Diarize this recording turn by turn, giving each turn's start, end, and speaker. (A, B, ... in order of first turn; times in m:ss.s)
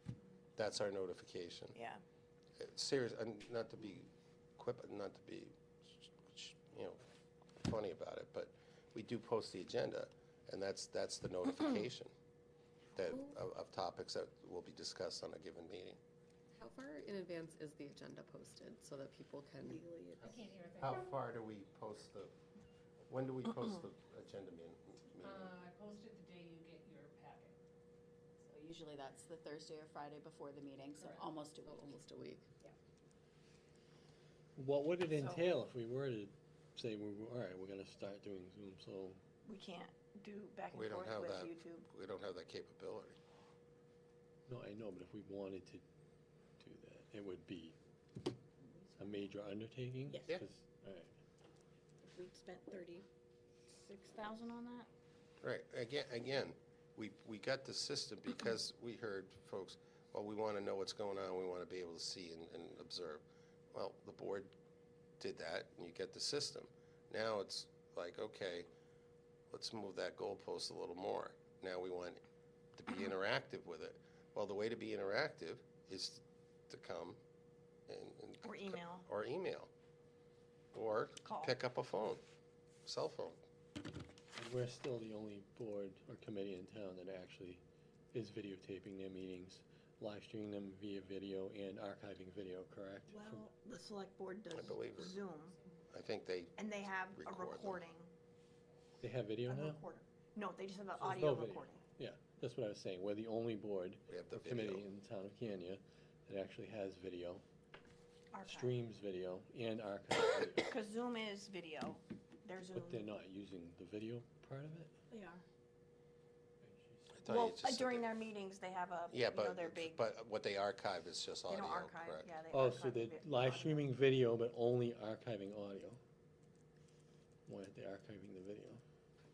0:00.6-0:01.7 A
0:01.7-0:02.0 B
0:02.6-0:07.0 A
0:07.6-0:12.1 A
0:13.0-0:16.0 A
0:16.5-0:19.8 C
0:19.6-0:20.4 B
0:20.3-0:21.1 D
0:20.8-0:22.3 A
0:23.1-0:25.5 A
0:25.2-0:27.6 D
0:28.4-0:32.0 E
0:31.6-0:32.4 C
0:34.6-0:39.2 F
0:35.1-0:35.5 B
0:39.4-0:41.9 B
0:40.7-0:43.2 A
0:44.5-0:45.8 F
0:46.6-0:47.8 F
0:48.6-0:49.3 B
0:49.0-0:51.1 F
0:52.0-0:53.1 B
0:53.7-0:54.9 B
0:55.4-1:04.5 A
1:05.2-1:08.7 A
1:09.5-1:12.2 A
1:12.8-1:17.2 A
1:17.9-1:19.7 A
1:18.4-1:19.1 B
1:20.7-1:22.2 A
1:21.2-1:21.5 B
1:22.8-1:23.4 A
1:24.4-1:33.4 F
1:33.1-1:35.6 B
1:34.5-1:35.1 A
1:35.9-1:36.6 A
1:36.6-1:38.1 B
1:37.1-1:37.8 A
1:39.0-1:39.8 F
1:39.5-1:41.8 B
1:41.0-1:47.4 F
1:44.1-1:44.8 A
1:48.3-1:48.7 B
1:48.4-1:50.7 F
1:50.7-1:53.0 B
1:52.8-1:54.9 F
1:55.1-1:55.4 B
1:56.6-1:57.1 F
1:57.1-1:58.1 A
1:57.3-2:00.0 B
1:59.1-2:02.3 A
2:01.5-2:03.8 B
2:02.5-2:06.0 F
2:07.5-2:08.8 F